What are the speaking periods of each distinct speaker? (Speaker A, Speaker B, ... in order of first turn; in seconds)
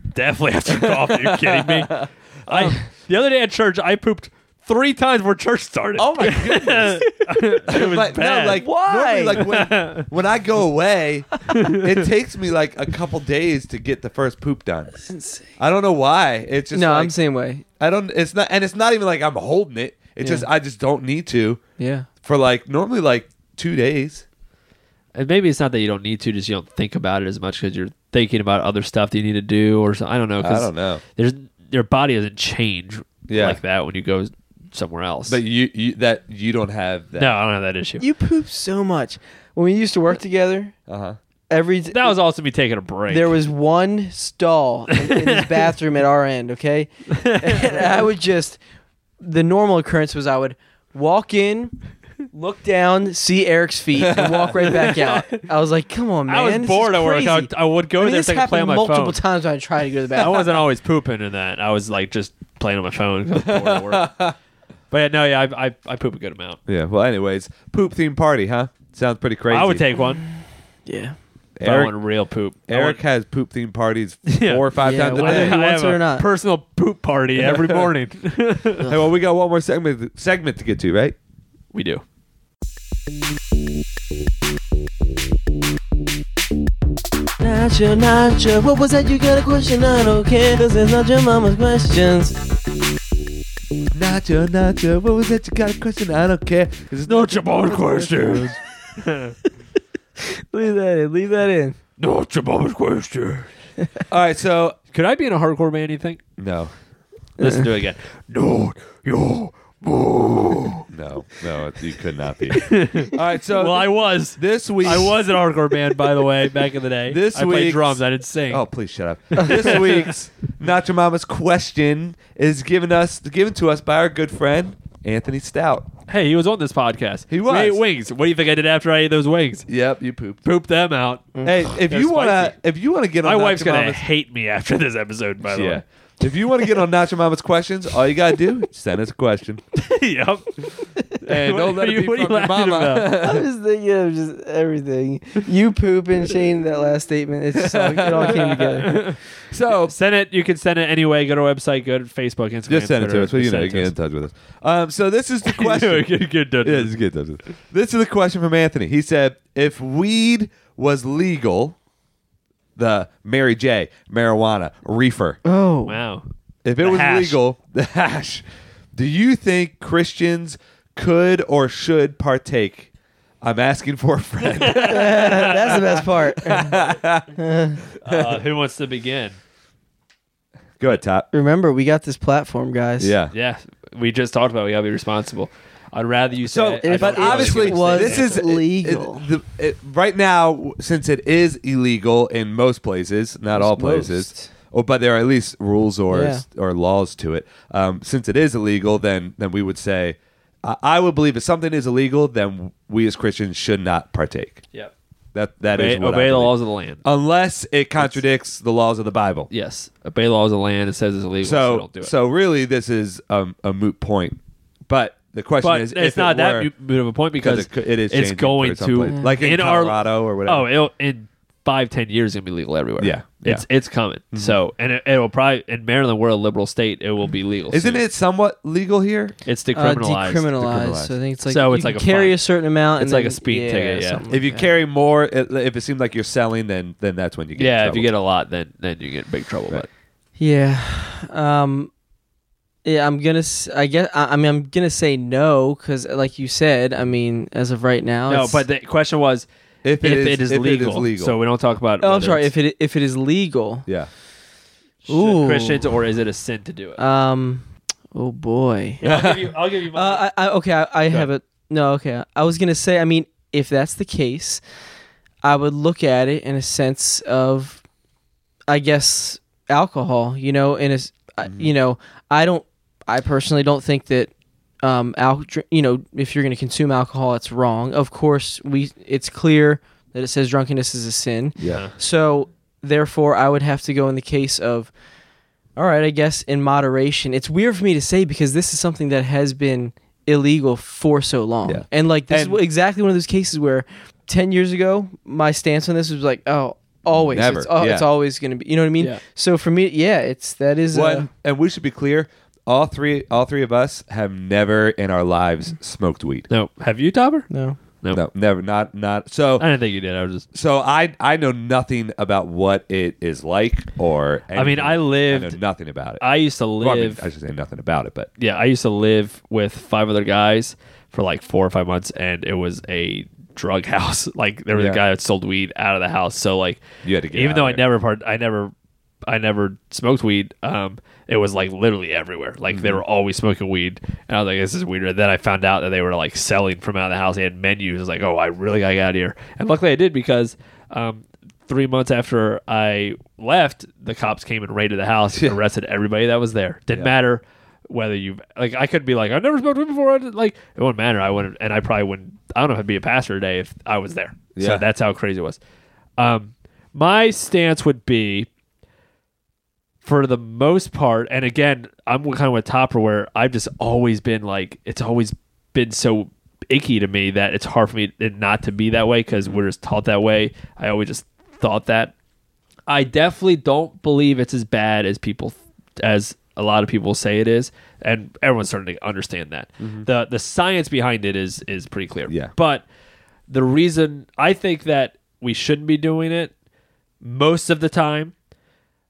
Speaker A: 0.1-8.6, 9.3-10.1, 11.5-12.1, 25.1-35.4, 37.2-38.0, 41.9-43.3, 44.9-45.5, 47.1-48.0, 54.5-55.5, 56.3-59.2, 60.1-64.1, 64.9-66.6, 69.5-70.2, 71.6-73.0, 74.3-78.9, 81.7-82.0, 97.0-99.3, 102.0-103.5, 104.9-106.2, 107.4-110.8, 112.5-118.6, 119.3-120.1, 126.1-129.7, 130.4-132.6, 133.2-135.8, 139.8-143.4, 148.1-153.9, 155.4-156.9, 165.8-166.3, 166.8-167.4, 174.6-176.0, 178.0-179.4, 183.3-188.5, 205.7-207.0, 209.5-212.1, 215.6-228.0, 229.4-230.6, 231.4-232.4, 232.9-234.3, 237.6-239.9, 248.3-249.5, 250.0-252.5, 255.1-257.0, 259.0-260.3, 281.7-281.9, 306.5-307.5, 309.6-310.5, 314.5-315.6, 316.2-317.3, 318.4-328.7, 329.3-355.6, 356.2-358.5, 360.0-372.1, 372.9-382.8, 383.5-386.5, 387.2-388.3
Speaker B: 0.7-2.1, 6.0-7.0, 7.7-14.9, 15.6-17.1, 17.8-21.6, 22.2-24.2, 30.4-31.0, 33.3-33.6, 35.3-37.3, 40.9-41.2, 54.0-54.5, 63.4-64.3, 66.7-70.0, 71.6-72.0, 72.7-75.6, 77.4-77.9, 78.8-81.1, 93.9-98.6, 104.1-104.8, 106.4-106.7, 110.9-115.3, 117.1-125.9, 127.3-127.8, 129.7-130.4, 131.4-134.0, 135.5-139.6, 141.2-143.5, 147.5-149.0, 149.5-149.9, 152.7-161.8, 162.8-165.4, 166.6-172.9, 173.4-175.8, 176.4-177.3, 178.1-178.4, 180.8-181.3, 183.0-183.3, 186.4-204.6, 205.3-209.5, 211.4-216.7, 217.4-220.7, 223.0-223.7, 224.3-224.6, 227.7-229.3, 230.6-231.1, 234.3-238.1, 249.8-251.3, 259.0-259.5, 271.4-271.7, 281.6-281.9, 291.6-292.6, 297.2-298.1, 300.9-306.5, 308.1-309.7, 310.5-316.2, 316.8-318.3, 324.7-325.0, 327.0-327.8, 332.7-333.0, 354.6-354.8, 369.3-369.6, 379.8-380.1, 382.3-382.5
Speaker C: 8.5-9.5, 15.0-15.4, 16.7-17.6, 20.2-20.5, 21.8-22.1, 38.0-40.7, 41.5-42.2, 43.1-48.6, 49.2-51.7, 52.3-60.6, 70.8-71.2, 74.8-76.3, 87.4-92.4, 100.3-101.8, 143.2-149.1, 165.4-166.0, 174.9-176.8, 177.3-177.8, 181.3-183.2, 186.8-189.3, 193.5-194.5, 196.1-196.4, 219.1-219.4, 229.7-234.8, 240.4-241.9, 242.8-248.6, 252.0-253.8, 255.1-255.9, 257.0-259.1, 259.9-264.6, 265.4-267.8, 268.7-274.3, 274.8-284.9, 285.8-301.3, 307.5-307.8